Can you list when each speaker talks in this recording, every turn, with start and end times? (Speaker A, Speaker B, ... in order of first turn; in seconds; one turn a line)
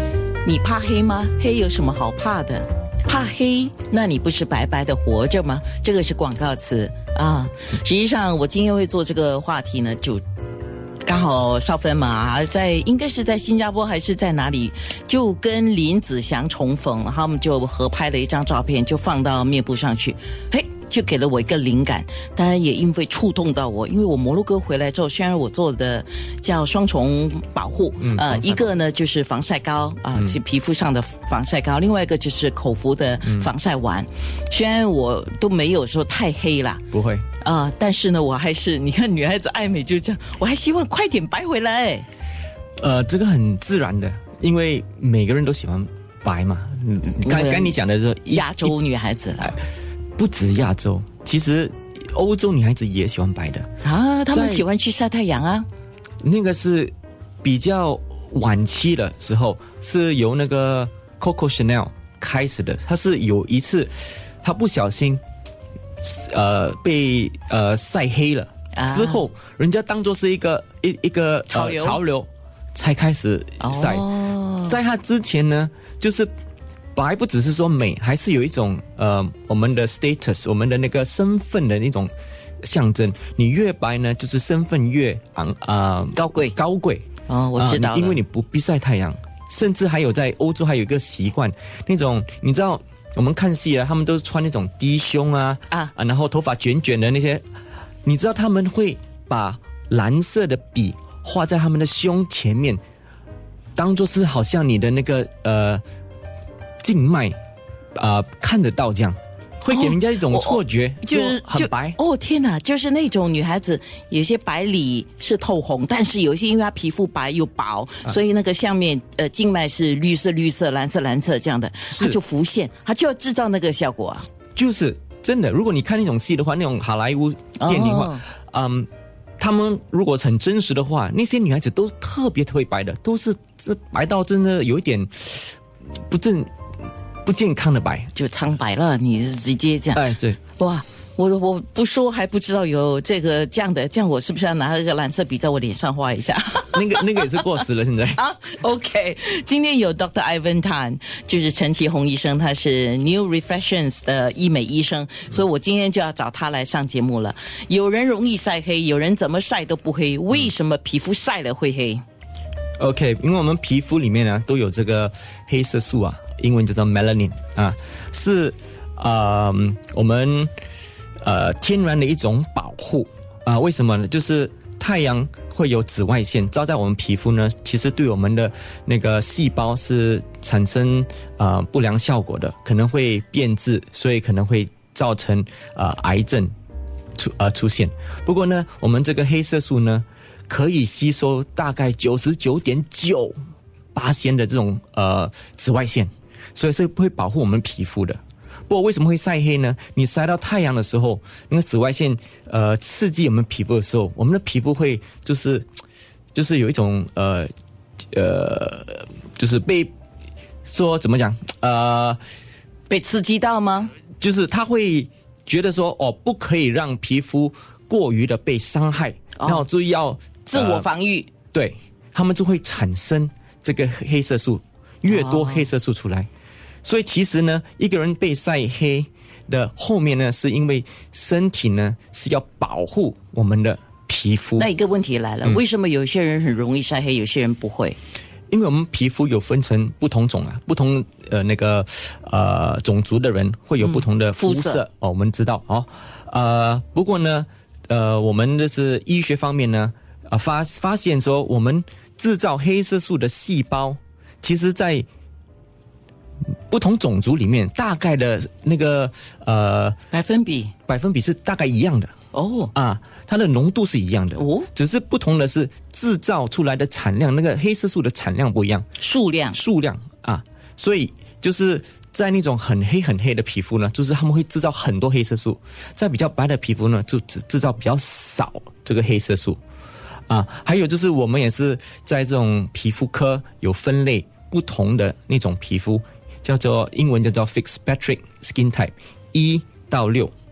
Speaker A: 0.4-10.2
Speaker A: 11.0-36.9
Speaker B: 28.0-28.7
Speaker B: 33.2-33.5
Speaker B: 36.9-37.3
Speaker A: 37.4-42.1
Speaker B: 42.8-48.8
Speaker A: 47.1-47.8
Speaker A: 48.3-49.6
Speaker B: 50.2-53.7
Speaker A: 53.8-55.7
Speaker B: 54.3-54.6
Speaker B: 56.2-65.2
Speaker B: 66.0-74.1
Speaker A: 68.7-69.3
Speaker A: 71.5-72.0
Speaker A: 73.6-74.8
Speaker B: 74.7-76.3
Speaker B: 77.0-82.1
Speaker B: 82.6-97.4
Speaker A: 86.2-86.6
Speaker A: 87.3-88.2
Speaker B: 98.0-102.8
Speaker B: 103.8-105.8
Speaker B: 106.8-107.4
Speaker B: 108.0-112.0
Speaker A: 109.7-124.3
Speaker B: 121.9-122.2
Speaker B: 124.5-136.5
Speaker A: 127.6-128.2
Speaker B: 137.2-138.1
Speaker A: 138.2-140.1
Speaker B: 139.9-140.4
Speaker A: 140.6-147.5
Speaker B: 146.7-148.2
Speaker A: 148.2-162.0
Speaker B: 162.8-170.5
Speaker B: 171.2-186.5
Speaker B: 187.2-193.4
Speaker B: 193.9-205.7
Speaker B: 206.3-207.5
Speaker B: 208.1-209.9
Speaker B: 210.7-212.2
Speaker A: 212.9-213.9
Speaker B: 214.2-220.9
Speaker A: 219.4-219.7
Speaker A: 220.5-221.3
Speaker B: 221.5-226.3
Speaker A: 225.1-225.7
Speaker B: 226.8-234.7
Speaker A: 234.6-238.0
Speaker B: 238.5-255.1
Speaker A: 243.8-244.8
Speaker B: 256.7-260.0
Speaker A: 260.1-260.8
Speaker B: 260.9-262.1
Speaker A: 262.3-262.7
Speaker B: 262.8-268.9
Speaker A: 264.4-264.7
Speaker A: 269.0-269.6
Speaker B: 269.5-279.6
Speaker B: 280.3-290.3